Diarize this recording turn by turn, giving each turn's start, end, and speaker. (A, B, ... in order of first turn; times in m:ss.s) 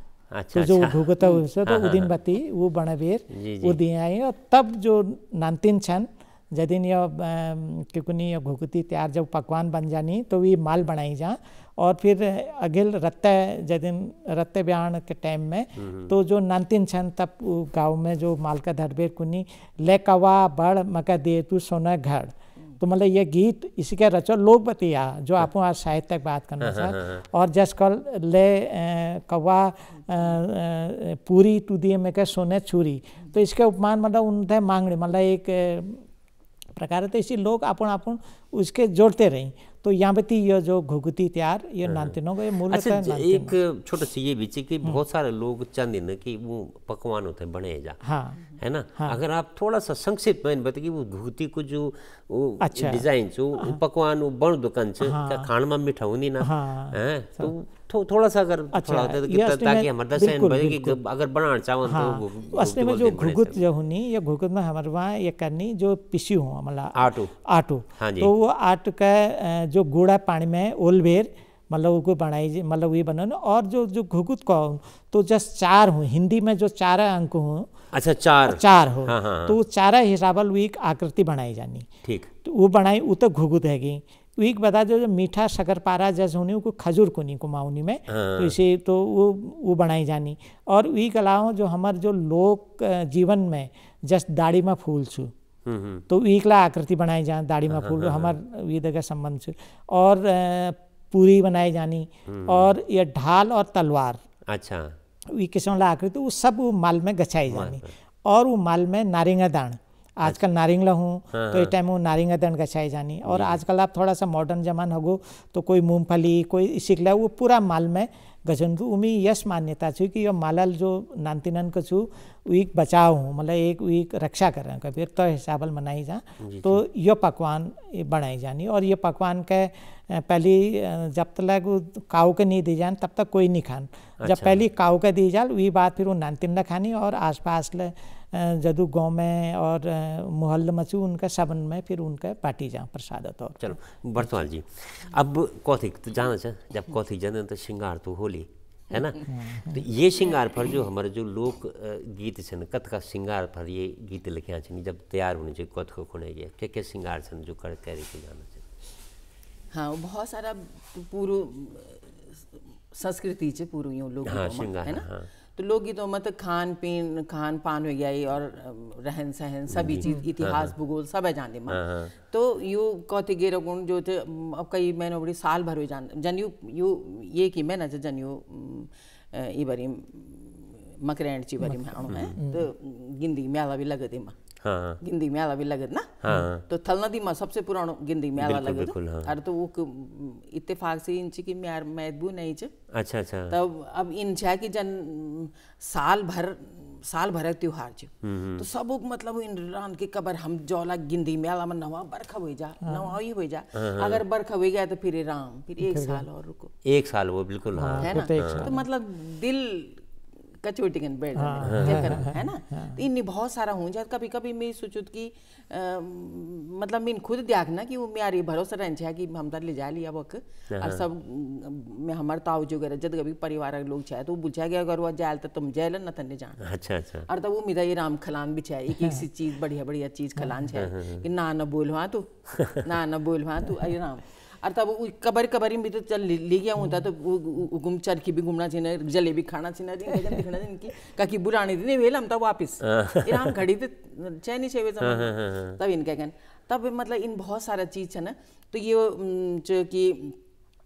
0:00.3-0:02.1 A
0:00.5-0:36.0 B
0:03.3-0:03.8 A
0:15.8-0:16.1 A
0:26.6-0:27.2 A
0:36.8-0:43.5 B
0:41.8-1:03.6 A
0:48.0-0:49.2 B
0:52.6-0:53.0 B
0:55.0-0:55.5 B
0:56.4-0:57.5 B
0:58.7-1:01.0 B
1:01.9-1:17.7 B
1:06.9-1:07.3 A
1:08.0-1:08.3 A
1:17.9-1:19.6 A
1:18.4-1:21.9 B
1:22.0-1:22.3 A
1:22.4-1:35.3 B
1:28.1-1:28.6 A
1:35.6-1:36.0 A
1:36.1-1:44.2 B
1:37.7-1:38.4 A
1:42.3-1:42.8 A
1:44.5-1:45.0 A
1:45.3-2:23.8 B
1:47.5-1:47.9 A
1:51.3-1:51.7 A
1:53.2-1:53.6 A
2:06.4-2:06.8 A
2:14.2-2:14.6 A
2:23.6-2:38.6 A
2:29.3-2:29.8 B
2:39.7-2:42.3 C
2:42.9-3:04.3 C
2:44.2-2:45.3 A
2:49.7-2:50.7 A
2:51.7-2:52.1 A
3:02.1-3:02.4 A
3:02.1-3:02.7 B
3:04.6-3:05.0 A
3:05.0-3:12.7 C
3:06.2-3:06.6 A
3:08.4-3:09.3 A
3:12.9-3:13.6 A
3:13.5-3:26.7 C
3:18.2-3:18.6 A
3:22.8-3:23.1 B
3:23.7-3:24.2 A
3:25.8-3:26.2 B
3:26.8-3:28.7 A
3:27.8-3:28.8 B
3:28.0-3:30.0 C
3:30.6-3:46.6 C
3:31.4-3:33.0 B
3:31.6-3:32.3 A
3:40.7-3:41.0 A
3:46.6-3:47.3 A
3:47.2-4:10.4 C
3:49.0-3:49.2 B
3:50.7-3:51.2 A
3:52.5-3:52.8 A
4:02.8-4:03.5 A
4:05.0-4:05.8 A